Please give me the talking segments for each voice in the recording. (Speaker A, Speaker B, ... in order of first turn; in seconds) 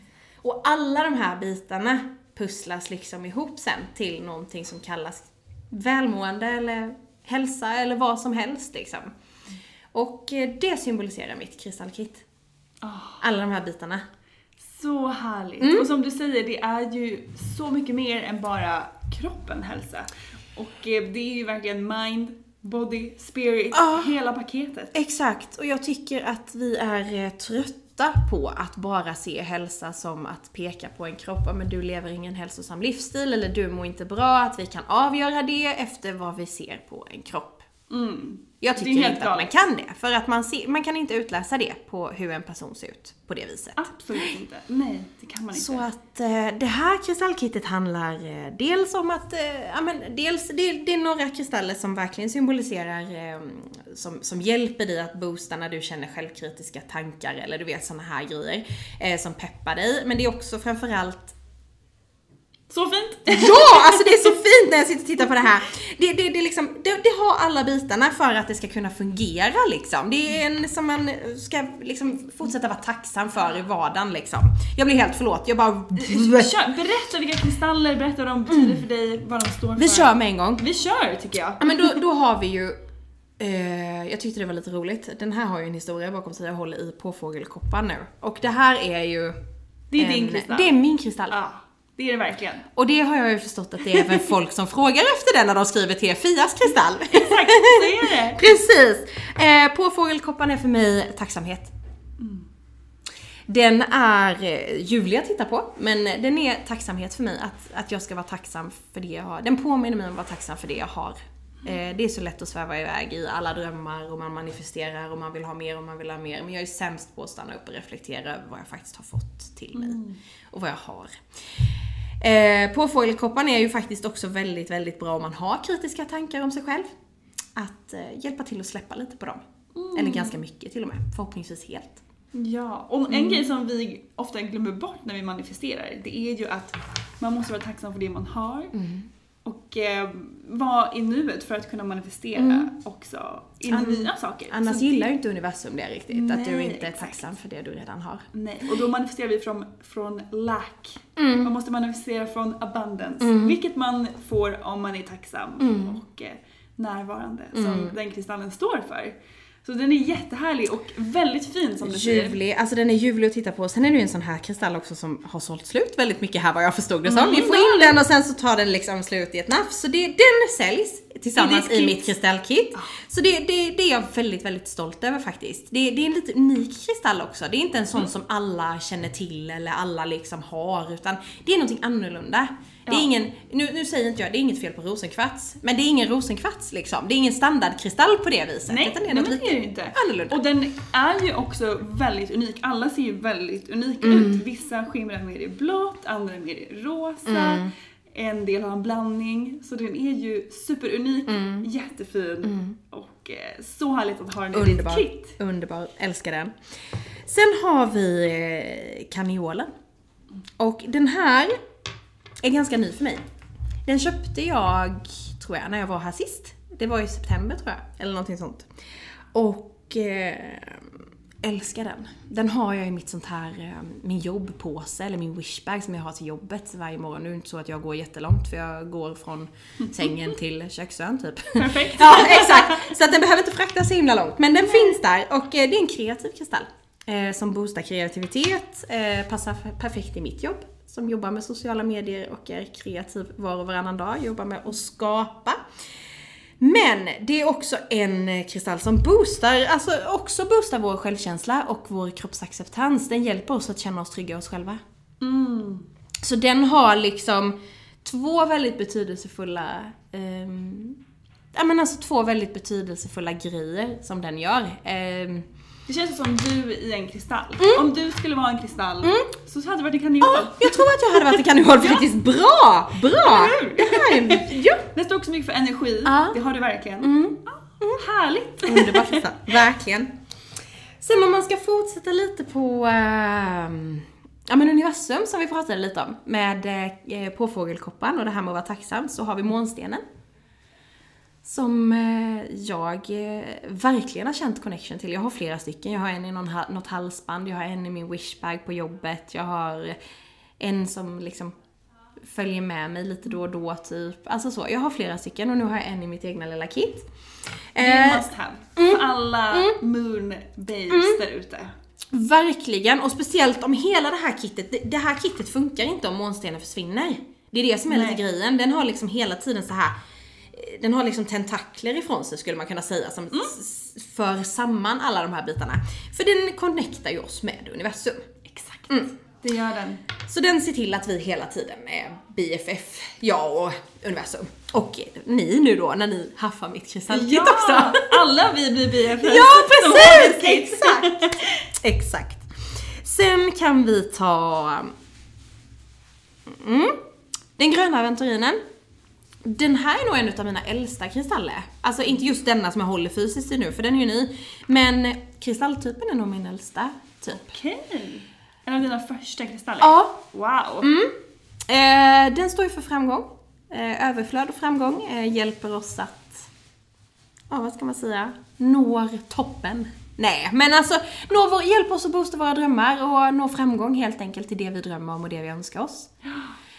Speaker A: 0.4-9.1, 9.9-12.2, 13.2-14.1, 15.6-15.9, 23.7-24.1, 24.9-37.7, 38.6-44.3, 45.5-61.4, 63.3-76.7, 78.5-78.8, 79.8-80.7, 81.6-82.8, 83.4-89.4, 90.0-91.4, 92.8-101.7, 103.5-126.9, 127.6-132.0, 133.1-133.5, 138.7-139.1, 142.4-142.7, 143.7-148.3, 151.2-151.6, 153.2-153.6, 155.6-156.0, 157.5-158.0, 161.8-190.4, 194.0-194.4, 197.3-197.7, 201.3-201.7, 202.4-202.8, 204.5-206.6, 207.2-209.7, 210.6-211.6, 212.4-213.2, 213.8-218.7, 219.3-245.6, 246.6-254.8, 256.2-261.0, 261.5-265.5, 267.6-267.9, 269.0-269.3, 270.2-274.9, 276.0-276.4, 277.0-278.0, 278.6-280.2, 281.0-290.0, 291.4-300.0, 300.6-301.6, 302.2-307.1, 307.7-309.8, 310.9-311.2, 312.1-319.9, 320.5-328.3, 330.2-338.2, 339.2-344.9, 346.5-347.0, 347.6-348.6, 349.4-357.5, 359.8-360.2, 360.8-366.5, 367.5-376.1
Speaker B: 12.8-13.2, 14.6-24.9, 37.9-39.5, 43.8-45.9, 62.7-64.3, 76.0-82.0, 89.9-90.7, 91.3-92.7, 93.9-94.2, 97.1-98.4, 102.2-102.5, 119.7-120.2, 129.7-130.4, 132.3-138.8, 139.4-145.1, 146.1-147.3, 148.3-162.4, 167.1-168.0, 171.3-172.1, 188.7-205.3, 231.6-232.9, 234.6-234.9, 255.2-255.9, 265.9-270.9, 273.1-279.5, 307.8-311.7, 317.9-318.2, 328.5-330.1, 337.1-341.6, 357.4-360.9, 376.3-376.5